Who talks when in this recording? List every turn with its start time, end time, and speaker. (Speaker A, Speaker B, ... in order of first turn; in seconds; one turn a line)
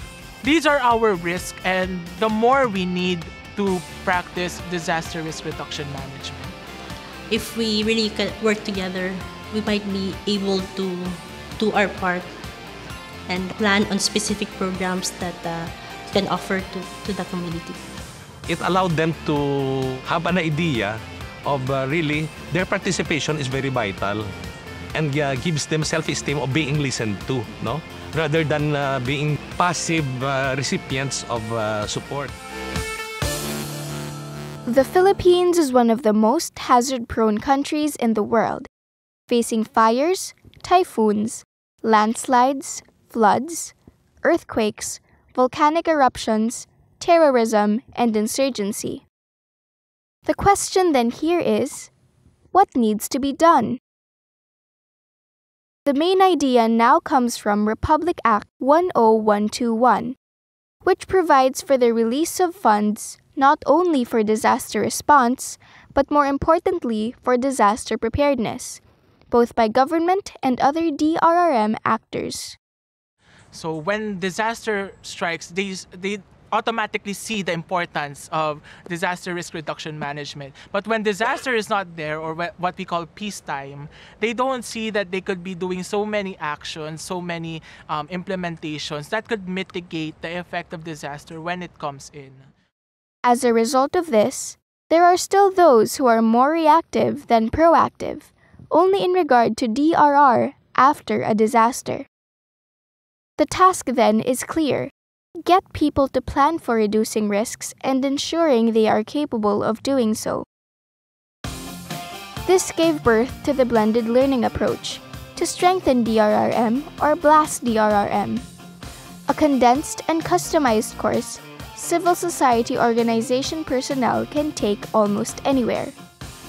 Speaker A: 0.4-6.5
Speaker B: 7.3-10.9
Speaker B: 11.7-12.2
Speaker B: 13.3-15.6
Speaker B: 16.1-17.8
Speaker C: 18.5-24.2
Speaker C: 24.9-32.3
Speaker D: 34.7-38.7
Speaker D: 39.3-49.0
Speaker D: 50.2-51.9
Speaker D: 52.5-53.8
Speaker D: 55.9-60.2
Speaker D: 60.8-72.6
Speaker A: 73.5-92.4
Speaker D: 93.2-102.1
Speaker D: 103.4-110.5
Speaker D: 112.4-118.4
Speaker D: 119.3-126.0